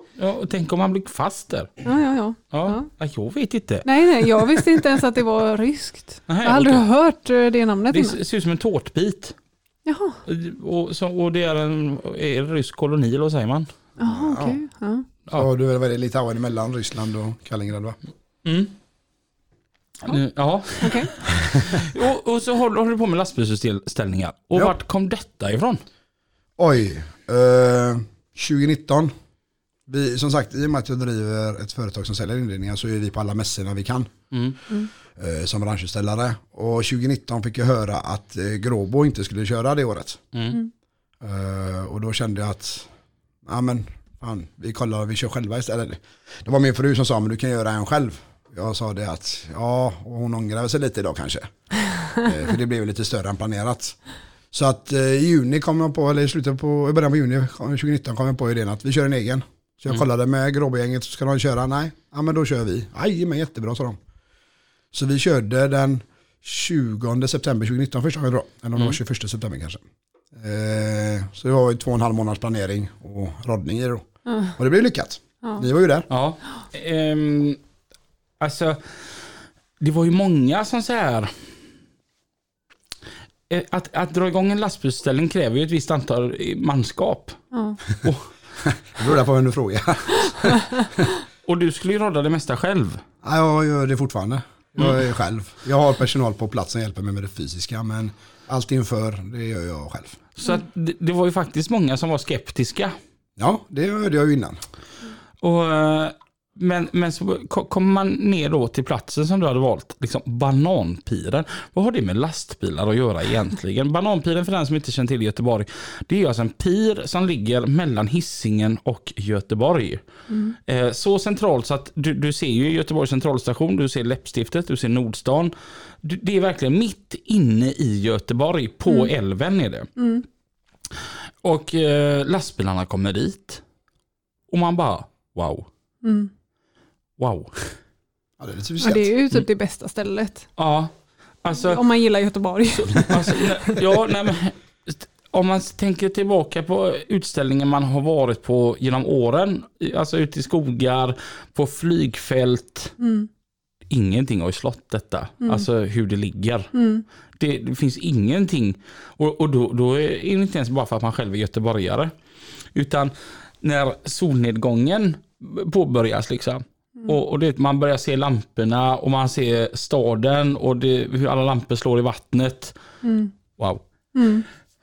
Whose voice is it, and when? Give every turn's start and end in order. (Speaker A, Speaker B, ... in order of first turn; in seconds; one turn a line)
Speaker A: 0.2-1.7
Speaker B: 1.8-2.9
Speaker A: 2.5-3.9
Speaker B: 3.9-8.2
Speaker A: 6.3-6.9
Speaker A: 7.9-9.3
Speaker B: 9.9-10.2
Speaker A: 10.2-13.7
Speaker B: 14.0-15.1
Speaker C: 14.1-14.6
Speaker C: 15.3-18.0
Speaker A: 18.4-18.7
Speaker A: 20.1-25.8
Speaker B: 20.8-21.1
Speaker C: 26.6-29.1
Speaker C: 29.9-34.1
Speaker A: 34.3-34.6
Speaker C: 35.1-40.2
Speaker C: 41.2-42.9
Speaker C: 43.5-51.5
Speaker C: 52.1-54.0
Speaker C: 54.5-64.0
Speaker C: 64.9-76.1
Speaker B: 74.3-74.5
Speaker A: 76.1-77.6
Speaker A: 78.4-79.0
Speaker A: 79.8-81.3
Speaker A: 83.5-87.4
Speaker B: 87.5-87.8
Speaker A: 88.0-88.3
Speaker C: 88.7-91.1
Speaker A: 91.5-93.0
Speaker C: 93.2-100.2
Speaker A: 100.4-103.0
Speaker C: 103.4-104.6
Speaker A: 105.4-120.0
Speaker B: 120.3-120.6
Speaker A: 120.7-129.9
Speaker B: 130.0-130.2
Speaker A: 131.4-133.6
Speaker A: 134.5-135.7
Speaker B: 136.0-136.3
Speaker A: 137.2-137.8
Speaker C: 138.4-139.1
Speaker B: 138.8-140.5
Speaker A: 140.6-140.9
Speaker A: 141.4-141.8
Speaker B: 141.5-143.9
Speaker A: 142.7-153.0
Speaker B: 153.0-153.3
Speaker A: 153.9-156.7
Speaker B: 156.7-157.1
Speaker A: 157.4-162.1
Speaker A: 162.7-172.8
Speaker B: 173.0-173.3
Speaker A: 173.6-173.8
Speaker B: 174.2-174.4